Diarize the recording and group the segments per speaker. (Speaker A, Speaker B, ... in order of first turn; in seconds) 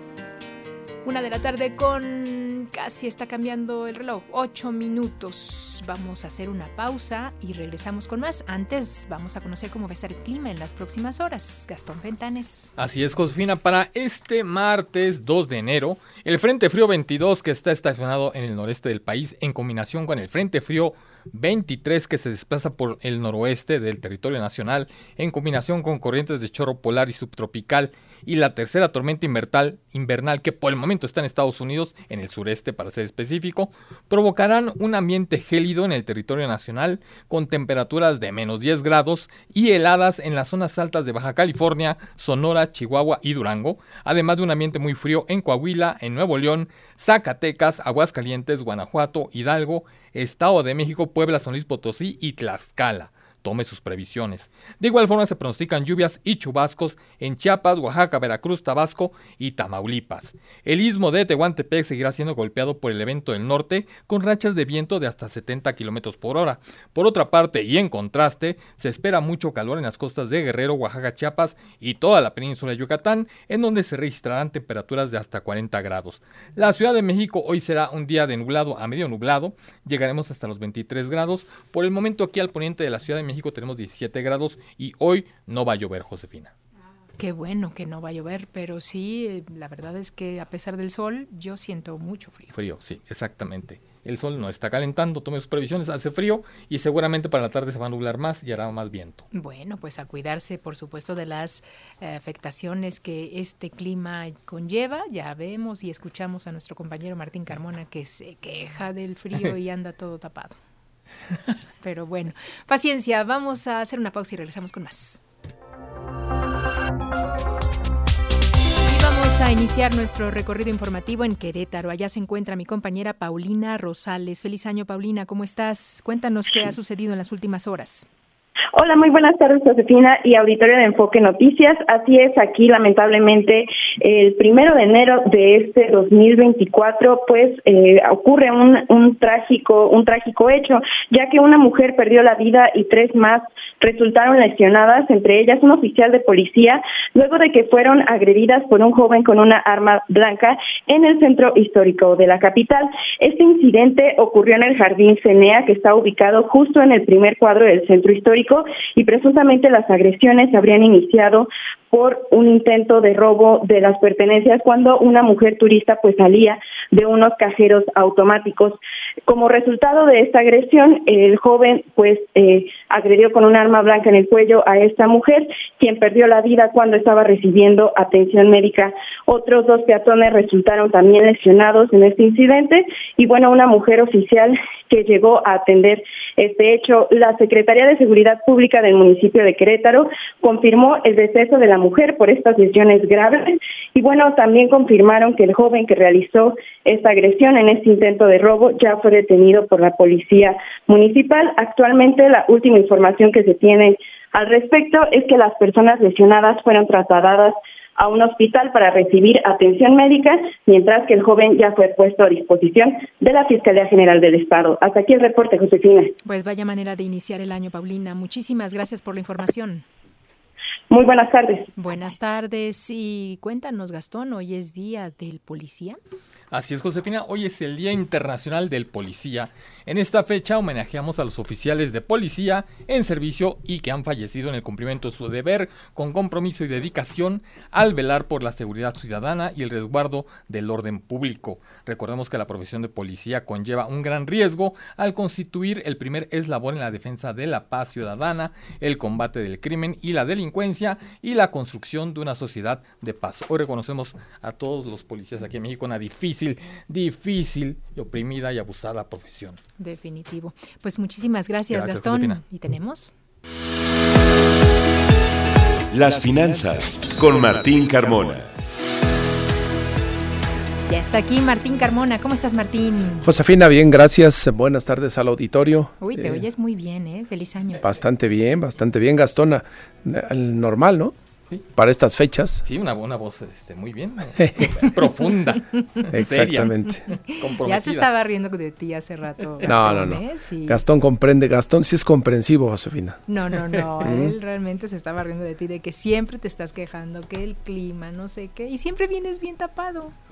Speaker A: 1.0-12.7, 87.2-92.5, 99.3-110.6, 111.8-115.2, 118.9-128.1, 216.2-219.8, 221.8-226.0, 259.8-263.1, 270.9-273.3, 276.0-277.8, 287.1-290.8, 293.3-300.1
Speaker B: 12.8-86.5, 92.5-99.2, 226.5-259.6, 261.7-262.4, 282.6-288.1
Speaker C: 128.7-216.1, 220.9-221.7
Speaker D: 265.9-268.5
Speaker E: 273.2-276.4, 277.8-281.1, 281.7-282.6, 284.4-284.7, 286.1-287.0, 289.6-293.2, 294.0-294.3